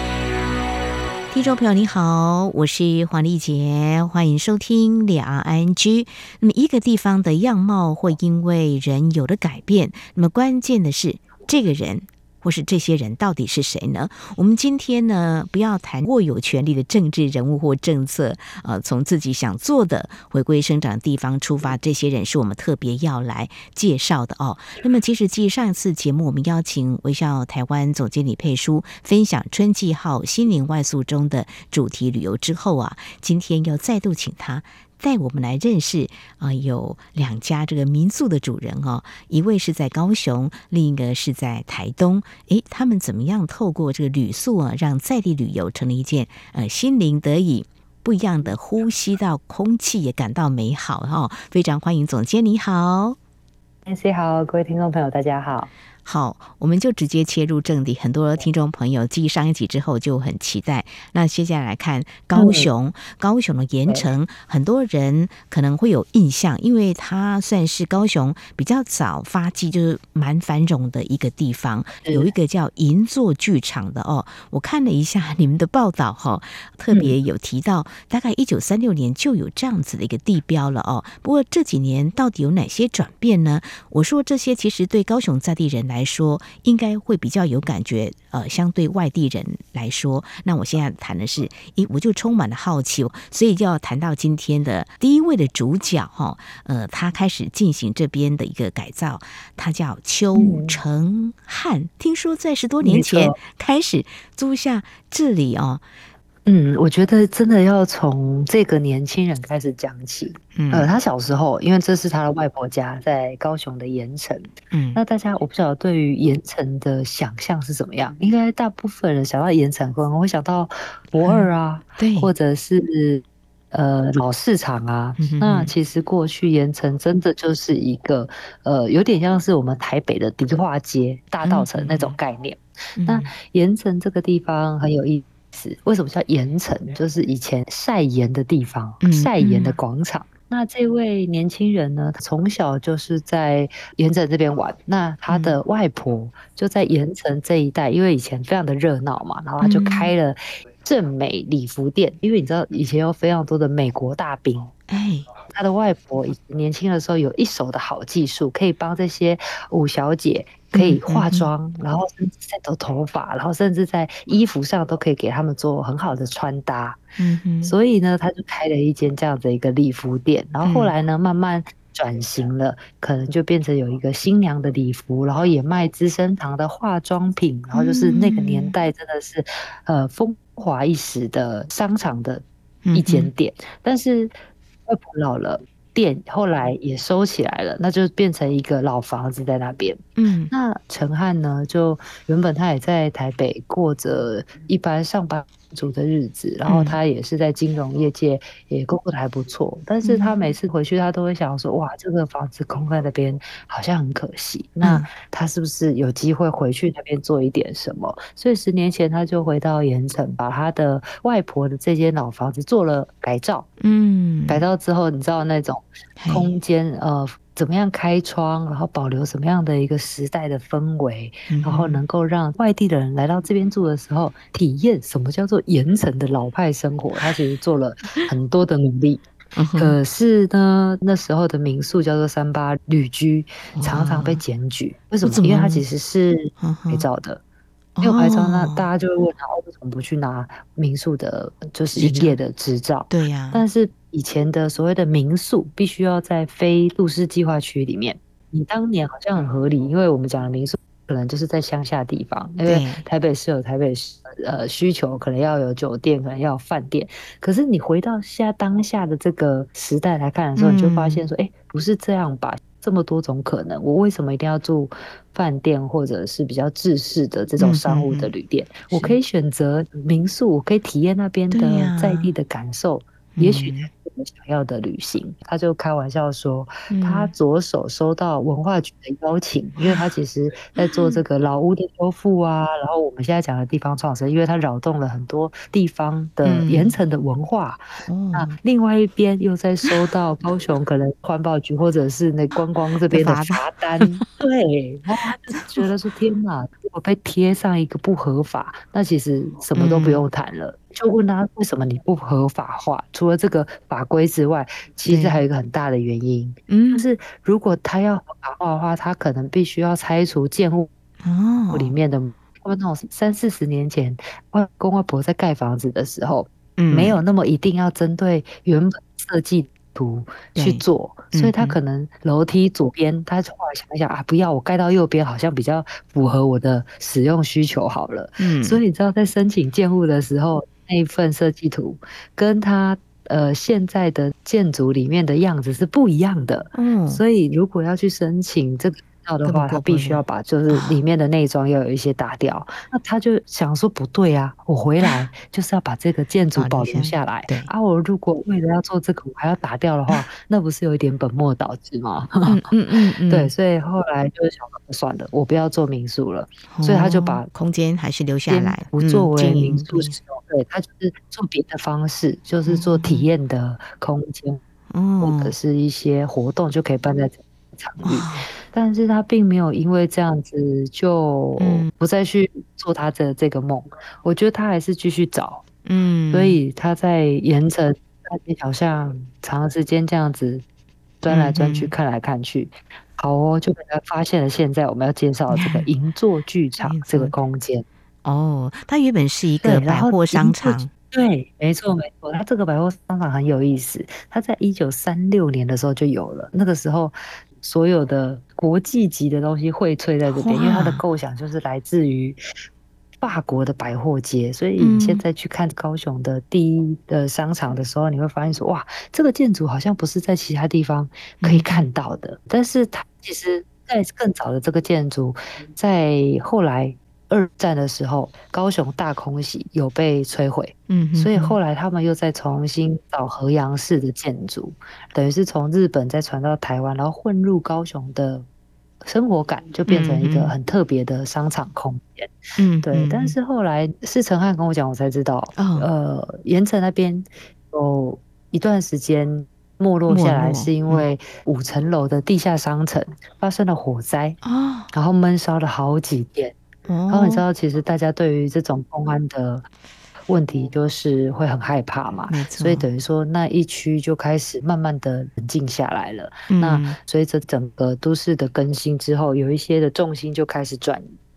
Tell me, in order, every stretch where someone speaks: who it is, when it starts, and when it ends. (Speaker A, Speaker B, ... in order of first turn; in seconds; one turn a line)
Speaker A: 1.3-53.2
Speaker B: 53.9-55.7
Speaker A: 56.0-105.8
Speaker B: 62.3-62.7
Speaker B: 72.0-72.3
Speaker B: 100.3-100.8
Speaker B: 102.8-103.4
Speaker B: 106.5-154.7
Speaker A: 110.5-110.9
Speaker A: 114.7-115.0
Speaker A: 121.2-122.3
Speaker A: 125.2-125.7
Speaker A: 131.4-132.2
Speaker A: 133.0-133.3
Speaker A: 139.0-139.8
Speaker A: 145.3-145.6
Speaker A: 149.6-150.1
Speaker A: 154.9-155.3
Speaker B: 155.5-167.0
Speaker A: 160.7-161.5
Speaker A: 167.2-167.7
Speaker B: 167.6-184.3
Speaker A: 170.6-170.9
Speaker A: 177.7-178.7
Speaker A: 182.8-183.3
Speaker B: 184.9-213.7
Speaker A: 190.2-190.5
Speaker A: 196.7-197.0
Speaker A: 200.0-200.3
Speaker A: 204.8-205.1
Speaker A: 213.8-214.6
Speaker B: 214.5-237.4
Speaker A: 216.2-216.5
Speaker A: 221.5-222.0
Speaker A: 229.5-229.9
Speaker A: 233.7-234.4
Speaker A: 235.2-235.8
Speaker A: 236.6-237.1
Speaker A: 237.9-238.8
Speaker B: 238.0-310.9
Speaker A: 241.9-242.4
Speaker A: 243.1-243.6
Speaker A: 252.6-253.0
Speaker A: 260.6-261.3
Speaker A: 267.6-268.3
Speaker A: 268.9-269.2
Speaker A: 271.5-272.3
Speaker A: 273.4-273.9
Speaker A: 276.9-277.3
Speaker A: 279.8-280.1
Speaker A: 280.7-281.2
Speaker A: 286.4-287.0
Speaker A: 288.1-288.6
Speaker A: 293.1-294.2
Speaker A: 295.5-295.8
Speaker A: 299.7-300.2
Speaker A: 305.1-305.4
Speaker A: 306.7-307.0
Speaker A: 311.2-311.9
Speaker B: 311.7-352.6
Speaker A: 316.8-317.2
Speaker A: 320.6-321.8
Speaker A: 328.4-328.8
Speaker A: 336.7-337.2
Speaker A: 339.4-341.0
Speaker A: 346.6-347.7
Speaker A: 352.4-353.5
Speaker B: 353.3-357.5
Speaker A: 356.7-360.1
Speaker B: 358.5-364.6
Speaker A: 362.6-363.3
Speaker A: 364.9-365.5
Speaker B: 365.2-375.6
Speaker A: 368.0-368.5
Speaker A: 371.6-371.9
Speaker A: 375.8-376.6
Speaker B: 376.3-380.6
Speaker B: 381.2-387.8
Speaker A: 381.3-381.9
Speaker A: 385.5-385.9
Speaker A: 386.8-387.3
Speaker A: 388.2-390.9
Speaker B: 389.6-402.4
Speaker A: 400.2-401.0
Speaker B: 403.2-428.4
Speaker A: 404.8-405.2
Speaker A: 411.4-411.8
Speaker A: 420.9-421.6
Speaker B: 429.0-444.4
Speaker A: 429.9-430.5
Speaker A: 432.6-433.4
Speaker A: 435.6-435.9
Speaker A: 440.1-441.1
Speaker A: 444.4-444.9
Speaker B: 444.9-446.6
Speaker A: 446.9-447.4
Speaker B: 447.1-449.6
Speaker B: 450.3-461.1
Speaker A: 452.3-452.8
Speaker A: 456.5-457.0